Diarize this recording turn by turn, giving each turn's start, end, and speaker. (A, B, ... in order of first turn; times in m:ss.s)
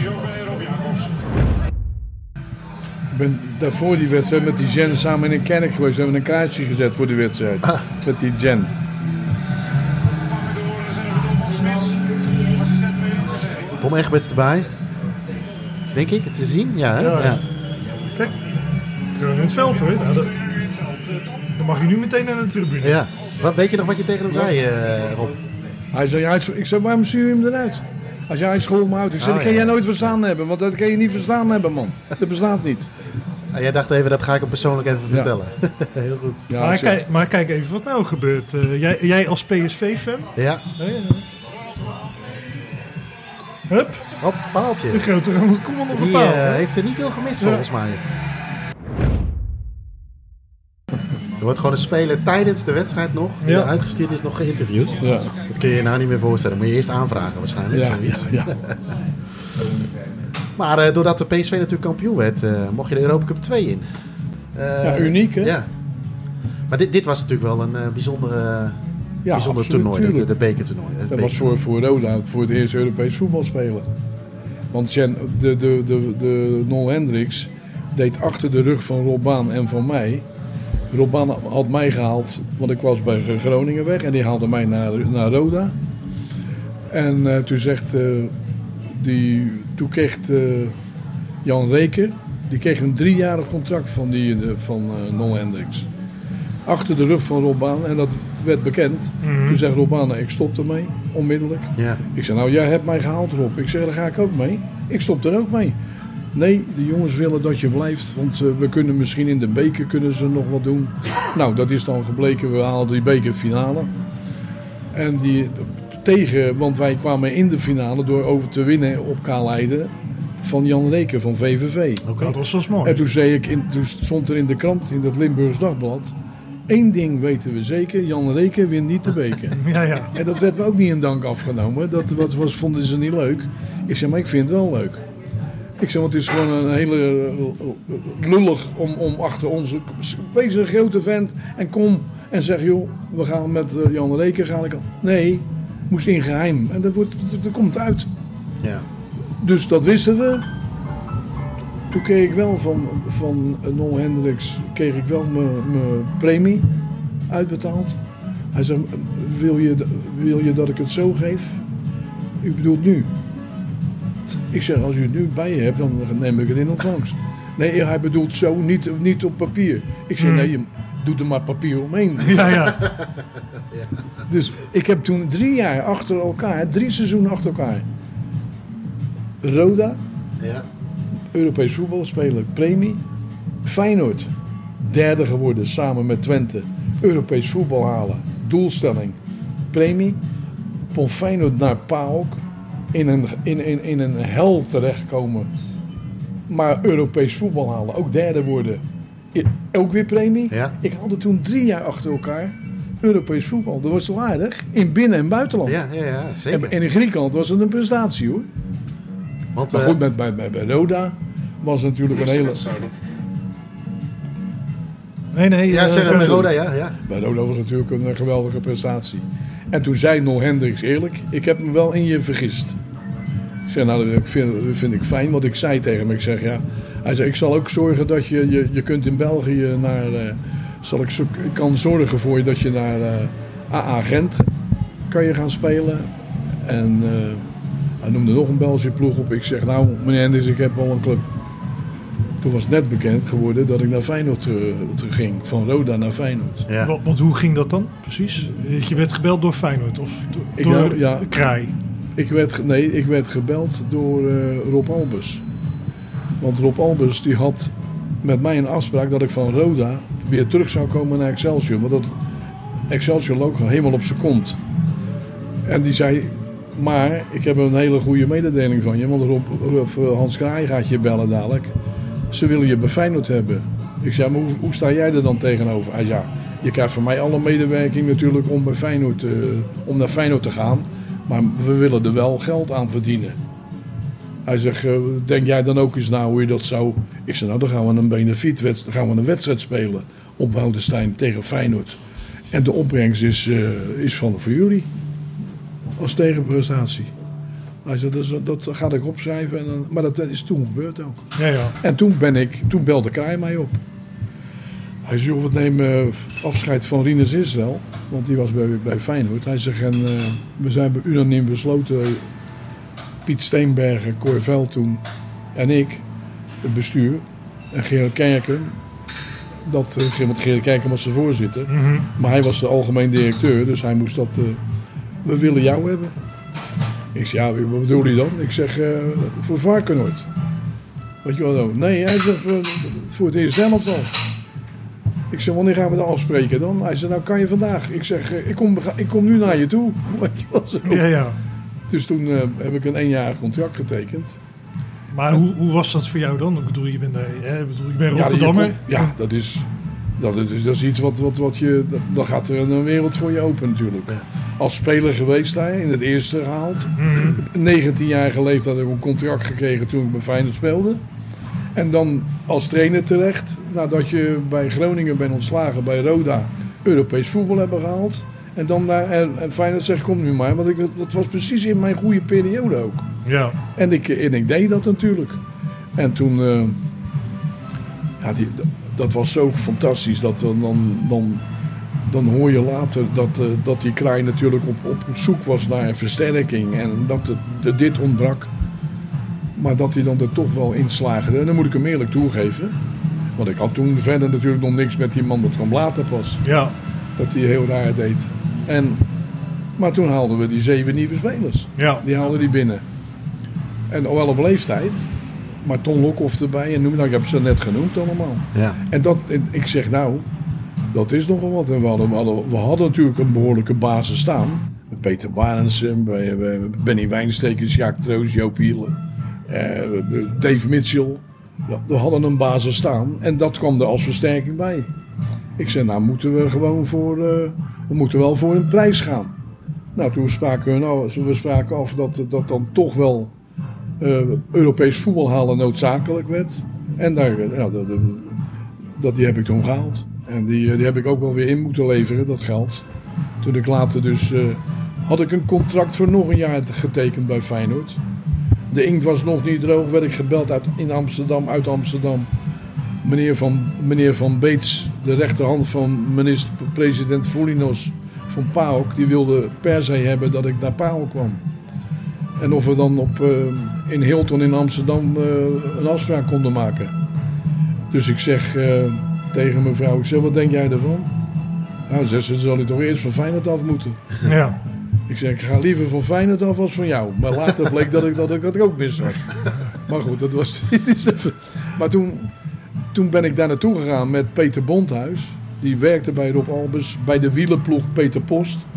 0:03.1-0:08.7 A
0:13.8-0:14.7 B
0:15.9-0:17.4 B
0:17.0-0:17.4 C
0:19.1-0:20.4 C
0:21.5-0:23.0 C
0:22.8-0:25.4 B
0:25.9-0:32.9 A
0:29.2-0:30.1 B
0:33.5-0:36.5 B
0:36.5-0:37.0 A
0:36.6-0:41.2 C
0:40.3-0:40.6 B
0:43.7-0:44.0 C
0:44.2-0:45.0 B
0:44.9-0:46.6 C
0:45.9-0:48.0 B
0:51.4-0:58.8 B
0:53.4-0:53.7 C
0:54.9-0:55.4 A
0:57.7-0:58.5 A
1:00.6-1:03.8 B
1:04.5-1:05.7 B
1:04.8-1:05.6 A
1:06.7-1:08.8 B
1:09.2-1:10.3 A
1:09.3-1:11.4 B
1:11.1-1:13.9 A
1:14.7-1:20.2 A
1:20.9-1:25.7 A
1:26.9-1:28.3 A
1:28.9-1:30.7 A
1:31.4-1:35.9 A
1:36.6-1:45.8 A
1:39.2-1:39.6 C
1:41.8-1:42.0 B
1:46.3-1:53.9 A
1:54.9-2:02.1 A
2:02.0-2:02.3 B
2:02.2-2:03.0 C
2:02.8-2:06.1 A
2:06.7-2:09.6 A
2:09.5-2:10.1 C
2:10.1-2:15.0 A
2:15.8-2:28.1 A
2:29.4-2:30.4 A
2:31.9-2:36.7 A
2:37.3-2:38.0 A
2:38.5-2:41.6 A
2:42.4-2:43.1 A
2:44.5-2:52.5 A
2:50.2-2:50.5 C
2:52.2-2:52.8 C
2:52.4-2:53.1 B
2:54.3-2:57.8 A
2:59.4-3:00.0 A
3:00.4-3:00.6 B
3:01.3-3:03.0 A
3:03.6-3:04.3 A
3:04.9-3:09.2 A
3:09.7-3:10.2 A
3:10.9-3:12.4 A
3:12.9-3:15.5 A
3:16.5-3:18.8 A
3:19.3-3:25.8 A
3:25.6-3:26.7 B
3:26.5-3:28.5 A
3:29.5-3:30.0 B
3:29.7-3:32.7 A
3:35.3-3:36.5 C
3:35.7-3:36.9 B
3:37.1-3:42.8 A
3:43.7-3:54.5 A
3:55.1-3:56.1 A
3:56.6-3:57.4 A
3:58.0-4:01.2 A
4:02.4-4:06.6 A
4:06.7-4:06.9 B
4:06.8-4:11.7 C
4:10.6-4:11.3 A
4:12.2-4:15.4 A
4:16.4-4:17.7 A
4:18.2-4:22.1 A
4:22.9-4:24.6 A
4:25.6-4:31.7 A
4:32.3-4:43.4 A
4:44.4-4:52.0 A
4:52.5-4:54.9 A
4:56.0-4:57.1 A
4:57.8-5:01.2 A
5:01.4-5:01.7 C
5:01.8-5:03.8 A
5:05.0-5:12.2 A
5:13.2-5:15.0 A
5:15.5-5:16.0 A
5:16.6-5:18.8 A
5:19.6-5:24.6 A
5:21.7-5:22.1 C
5:25.2-5:26.1 A
5:27.1-5:30.2 A
5:31.2-5:34.1 A
5:35.3-5:41.0 A
5:40.9-5:41.4 C
5:41.9-5:44.4 A
5:45.1-5:49.1 C
5:48.1-5:49.7 A
5:50.2-6:01.0 A
5:57.0-5:57.4 C
6:01.7-6:13.1 A
6:13.2-6:13.5 C
6:13.8-6:15.4 A
6:16.0-6:16.8 A
6:18.2-6:21.4 A
6:22.1-6:28.5 A
6:29.6-6:32.7 A
6:33.4-6:36.4 A
6:36.4-6:36.7 C
6:37.2-6:39.0 A
6:39.8-6:42.8 A
6:41.8-6:42.0 C
6:43.9-6:45.1 A
6:45.6-6:50.2 A
6:50.9-6:59.0 A
6:59.5-7:04.9 A
7:05.6-7:09.3 A
7:10.0-7:13.3 A
7:14.0-7:18.4 A
7:19.0-7:22.8 A
7:23.4-7:28.0 A
7:28.7-7:32.3 A
7:33.0-7:41.4 A
7:42.4-7:46.9 A
7:47.9-7:51.1 A
7:51.9-7:54.0 A
7:54.2-7:54.6 C
7:55.1-7:59.3 A
7:59.9-8:02.3 A
8:02.9-8:08.6 A